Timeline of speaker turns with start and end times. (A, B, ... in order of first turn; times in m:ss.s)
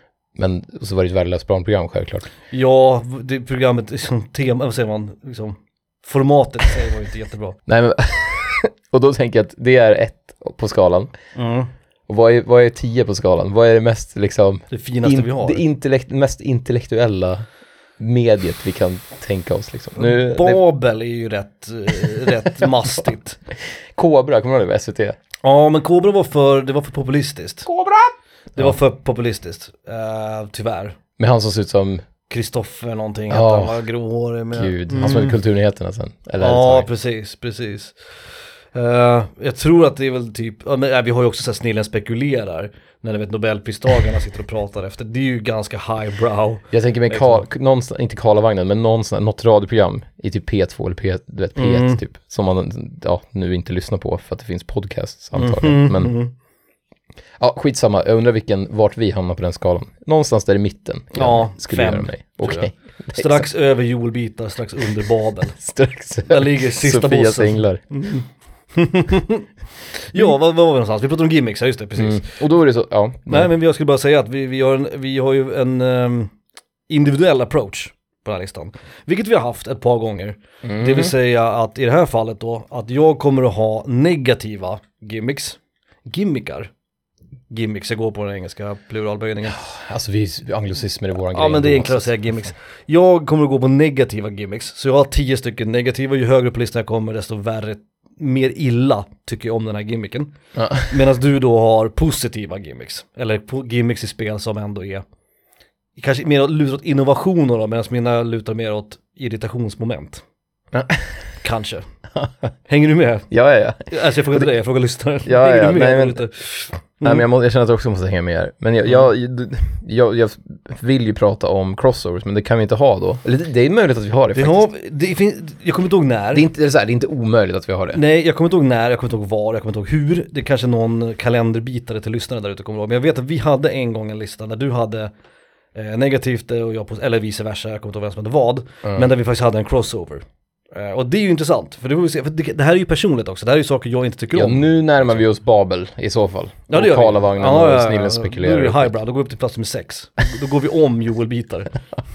0:00.4-0:02.3 A
0:02.5-0:07.6 B
0:07.7-0:11.1 A
0:11.3-0:11.7 B
0:12.1-0:17.4 A
0:14.7-0:15.6 B
0:18.0-0:20.6 A
0:19.9-0:23.4 B
0:23.9-0:25.2 A
0:25.4-0:27.7 B
0:27.7-0:28.7 A
0:28.5-0:31.0 B
0:31.2-0:32.0 A
0:32.3-0:35.4 B
0:33.3-0:33.8 A
0:34.5-0:36.8 A
0:36.4-0:37.9 B
0:38.7-0:47.4 B
0:46.7-0:56.1 A
0:51.6-0:52.0 B
0:55.4-0:56.3 B
0:57.4-1:03.4 A
1:01.1-1:05.6 B
1:05.5-1:07.8 A
1:06.3-1:12.3 B
1:12.0-1:13.5 A
1:13.3-1:16.3 B
1:16.9-1:26.7 B
1:20.6-1:21.1 A
1:27.5-1:29.6 B
1:29.5-1:32.3 A
1:31.2-1:45.0 B
1:40.5-1:40.9 A
1:46.0-1:50.2 B
1:50.7-1:51.1 A
1:51.4-1:51.8 B
1:52.7-1:53.3 B
1:53.3-1:54.5 A
1:53.9-1:57.2 B
1:55.2-1:56.2 A
1:57.0-2:04.7 A
2:04.3-2:06.4 B
2:06.3-2:08.0 A
2:07.9-2:15.1 B
2:15.7-2:25.2 B
2:24.3-2:28.9 A
2:26.7-2:31.7 B